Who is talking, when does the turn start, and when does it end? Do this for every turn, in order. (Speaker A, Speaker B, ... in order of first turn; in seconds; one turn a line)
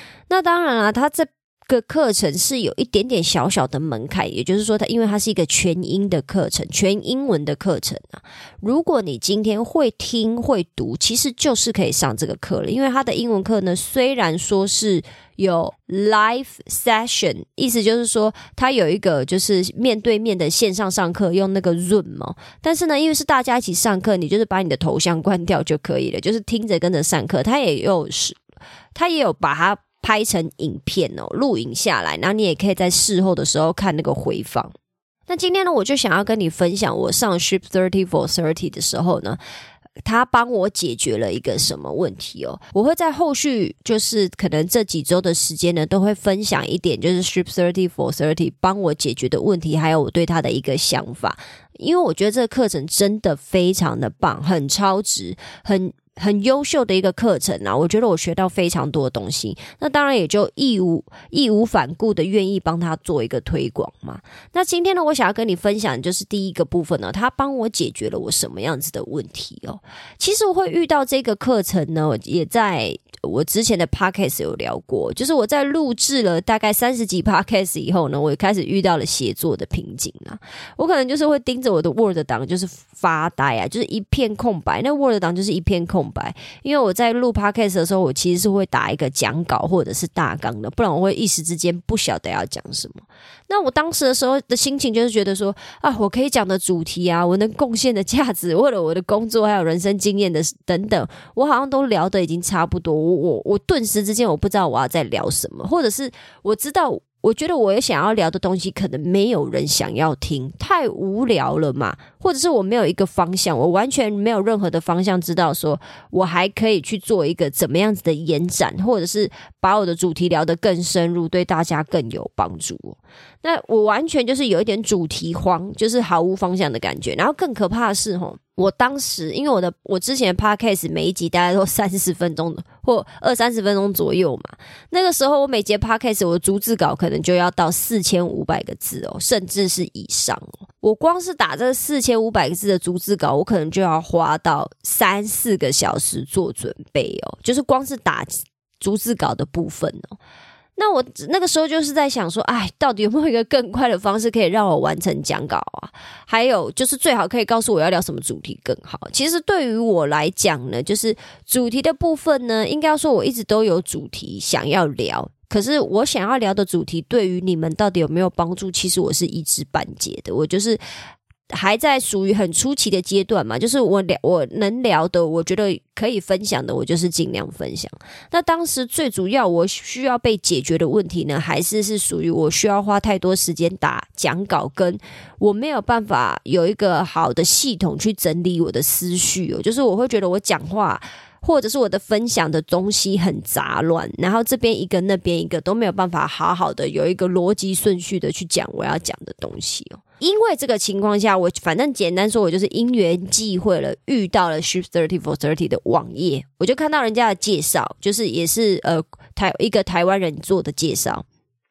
Speaker A: 0.3-28.4
Speaker A: 28.9-34.7
Speaker A: 35.3-39.4
Speaker A: 40.0-150.2
Speaker A: 150.8-170.8
Speaker A: 171.5-211.2